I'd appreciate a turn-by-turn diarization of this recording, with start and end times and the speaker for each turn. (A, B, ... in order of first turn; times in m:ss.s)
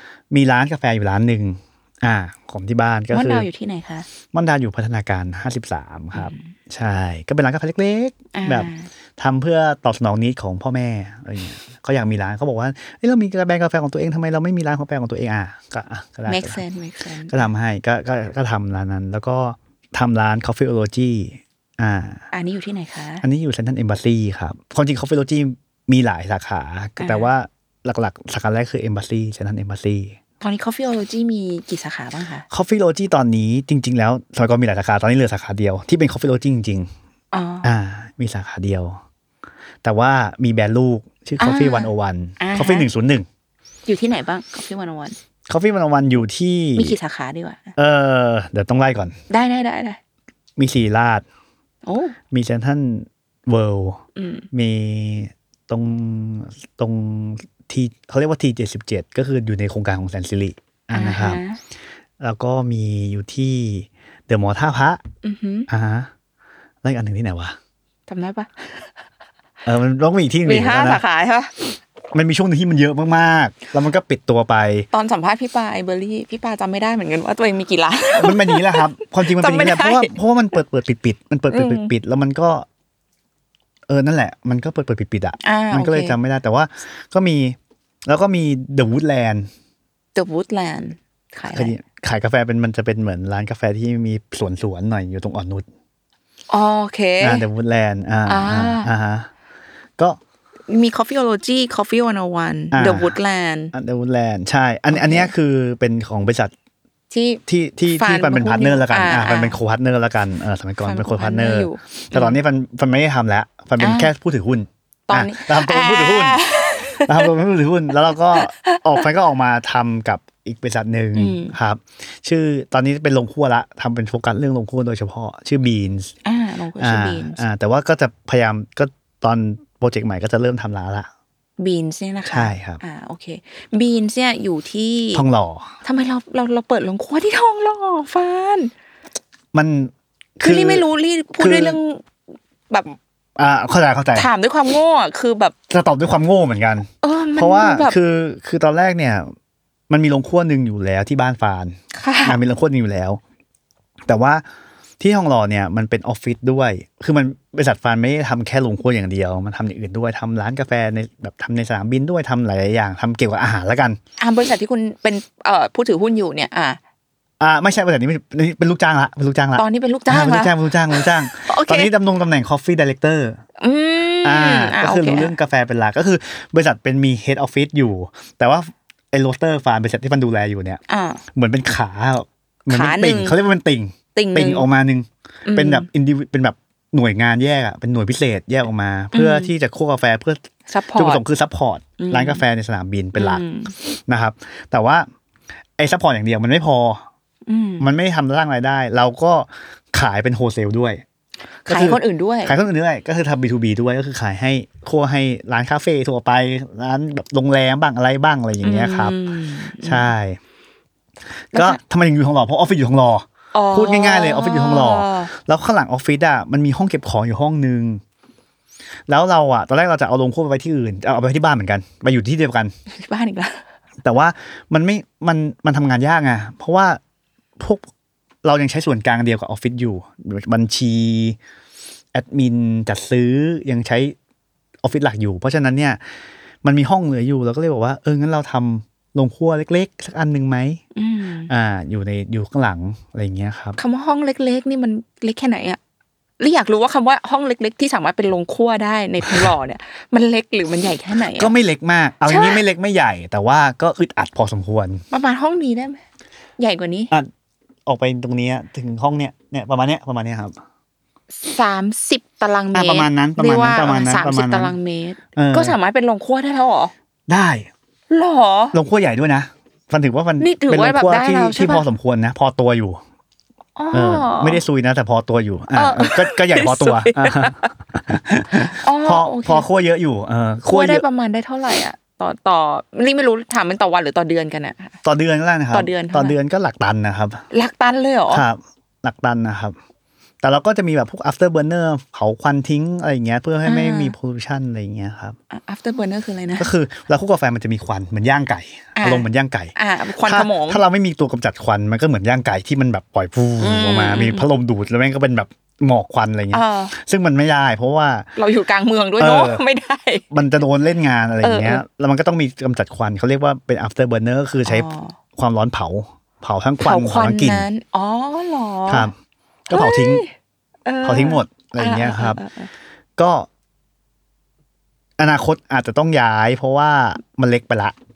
0:00.3-0:03.5 A
0:03.1-0:04.1 B
0:04.3-0:16.6 A
0:06.1-0:06.5 B
0:08.3-0:08.9 B
0:16.3-0:17.5 B
0:17.3-0:22.2 A
0:22.3-0:23.2 B
0:23.2-0:30.2 A
0:27.0-0:27.3 B
0:30.4-0:32.4 B
0:32.5-0:36.9 A
0:37.3-0:37.7 B
0:37.6-0:39.0 A
0:39.8-0:43.2 A
0:41.4-0:42.9 B
0:43.8-0:45.2 B
0:45.5-0:47.0 A
0:46.8-0:47.7 B
0:47.8-0:49.2 A
0:49.3-0:50.0 B
0:50.6-0:51.2 A
0:51.8-0:52.2 B
0:52.3-1:01.4 A
0:54.2-0:54.4 B
1:00.9-1:01.6 B
1:02.2-1:05.0 A
1:05.2-1:05.7 B
1:05.7-1:06.1 A
1:06.8-1:07.6 A
1:08.1-1:08.7 B
1:09.6-1:11.0 A
1:10.4-1:11.6 B
1:12.1-1:14.9 A
1:14.9-1:20.1 B
1:18.2-1:22.7 A
1:21.5-1:21.9 B
1:23.9-1:29.5 A
1:25.4-1:26.2 B
1:30.1-1:31.7 B
1:31.5-1:35.7 A
1:36.5-1:37.4 B
1:37.2-1:39.3 A
1:38.2-1:38.9 B
1:40.7-1:43.7 B
1:42.7-1:43.2 A
1:43.7-1:46.5 A
1:44.9-1:45.3 B
1:47.1-1:49.6 B
1:47.5-1:56.4 A
1:50.8-1:52.4 B
1:53.8-1:54.1 B
1:55.1-1:57.3 B
1:57.0-2:06.1 A
1:58.3-1:58.8 B
2:01.1-2:01.5 B
2:06.2-2:07.4 B
2:06.8-2:11.1 A
2:11.6-2:15.2 B
2:12.3-2:12.8 A
2:15.1-2:15.7 A
2:15.8-2:18.7 B
2:19.5-2:20.8 A
2:20.4-2:22.0 B
2:21.4-2:21.8 A
2:23.4-2:24.3 A
2:24.1-2:25.5 B
2:25.7-2:29.3 A
2:27.0-2:28.0 B
2:29.9-2:33.2 A
2:31.9-2:32.4 B
2:34.1-2:34.4 A
2:35.0-2:44.0 A
2:44.2-2:46.8 B
2:47.4-2:53.4 A
2:49.6-2:51.9 B
2:53.6-2:55.3 B
2:54.2-3:00.8 A
3:00.9-3:01.2 B
3:01.3-3:10.4 A
3:02.7-3:03.4 B
3:04.1-3:04.7 B
3:05.4-3:05.9 B
3:09.1-3:09.5 B
3:10.7-3:11.2 B
3:11.0-3:15.1 A
3:12.0-3:12.4 B
3:13.1-3:13.7 B
3:15.8-3:17.0 A
3:17.5-3:17.9 B
3:17.8-3:21.0 A
3:21.6-3:22.5 B
3:21.7-3:29.2 A
3:28.6-3:30.1 B
3:29.8-3:30.4 A
3:31.5-3:31.8 B
3:31.5-3:38.0 A
3:33.5-3:35.3 B
3:39.1-3:42.7 A
3:42.9-3:43.6 B
3:44.0-3:47.0 A
3:47.6-3:47.8 A
3:48.4-3:51.4 A
3:52.1-3:54.2 A
3:54.8-3:56.0 A
3:56.6-4:00.8 A
4:00.9-4:01.5 B
4:01.5-4:03.8 A
4:03.8-4:05.8 B
4:06.4-4:11.5 B
4:09.3-4:09.5 A
4:11.3-4:15.0 A
4:12.2-4:12.6 B
4:15.1-4:16.0 B
4:16.6-4:17.1 B
4:17.8-4:20.5 A
4:21.3-4:26.9 B
4:22.7-4:24.7 A
4:25.4-4:25.8 A
4:27.3-4:27.7 A
4:28.1-4:28.8 B
4:28.7-4:33.0 A
4:30.4-4:31.8 B
4:33.8-4:34.6 B
4:33.9-4:41.0 A
4:35.7-4:37.7 B
4:38.6-4:39.6 B
4:40.7-4:45.0 B
4:45.0-4:47.4 A
4:45.7-4:46.4 B
4:47.5-4:48.4 B
4:48.3-4:49.8 A
4:50.4-4:55.4 A
4:53.6-4:54.1 B
4:55.5-4:56.7 B
4:56.6-5:08.3 A
4:59.0-5:00.8 B
5:03.6-5:04.5 B
5:06.5-5:06.9 B
5:08.4-5:10.2 B
5:09.2-5:09.6 A
5:10.3-5:17.7 A
5:11.4-5:11.8 B
5:14.6-5:15.2 B
5:16.8-5:19.1 B
5:18.9-5:19.1 A
5:19.7-5:20.2 A
5:19.7-5:20.3 B
5:20.8-5:22.7 B
5:21.0-5:22.4 A
5:23.2-5:23.5 A
5:25.2-5:27.9 A